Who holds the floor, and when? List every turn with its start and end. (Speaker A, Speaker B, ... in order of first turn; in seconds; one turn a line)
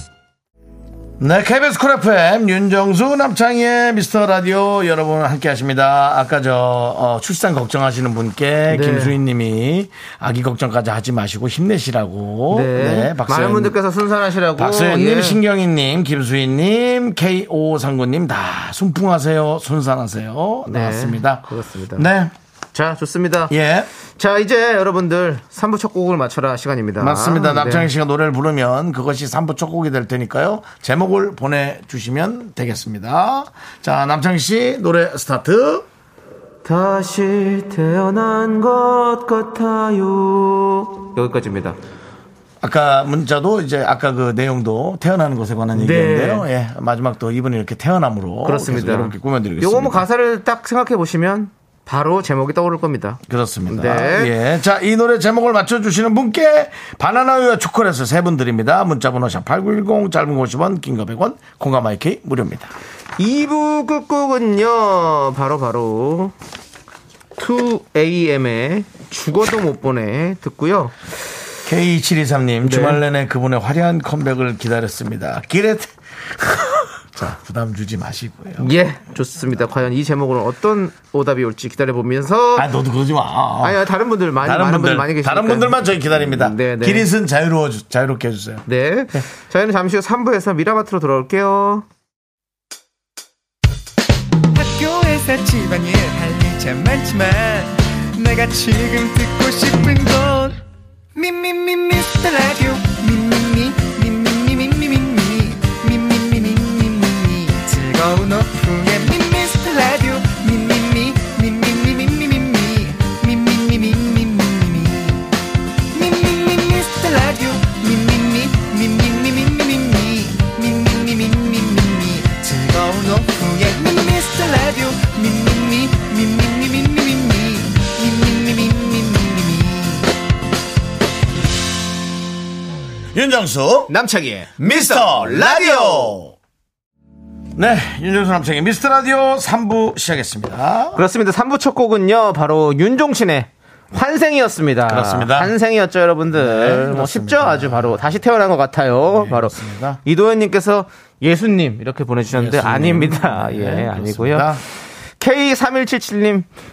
Speaker A: 1.2-13.8
Speaker B: 8.7-9.2
Speaker B: 12.5-15.4
Speaker A: 14.6-22.3
Speaker B: 20.7-22.1
Speaker B: 22.7-23.5
Speaker A: 23.5-23.9
Speaker B: 24.2-27.9
Speaker A: 27.0-35.9
Speaker B: 36.6-41.8
Speaker A: 42.6-50.0
Speaker B: 45.8-46.5
Speaker B: 48.4-54.3
Speaker A: 53.3-62.7
Speaker B: 63.2-66.3
Speaker B: 67.4-71.0
Speaker A: 71.7-78.7
Speaker B: 72.6-73.0
Speaker B: 78.6-82.7
Speaker A: 82.6-83.8
Speaker B: 83.6-87.1
Speaker A: 84.4-89.2
Speaker B: 88.7-91.9
Speaker C: 94.5-100.6
Speaker C: 101.2-115.3
Speaker C: 115.9-130.1
Speaker A: 133.1-133.9
Speaker B: 133.9-136.2
Speaker A: 134.6-136.3
Speaker A: 137.6-141.0
Speaker B: 140.9-154.5
Speaker A: 144.9-145.5
Speaker A: 146.3-148.1
Speaker A: 149.1-150.0
Speaker A: 152.3-154.6
Speaker B: 155.2-156.5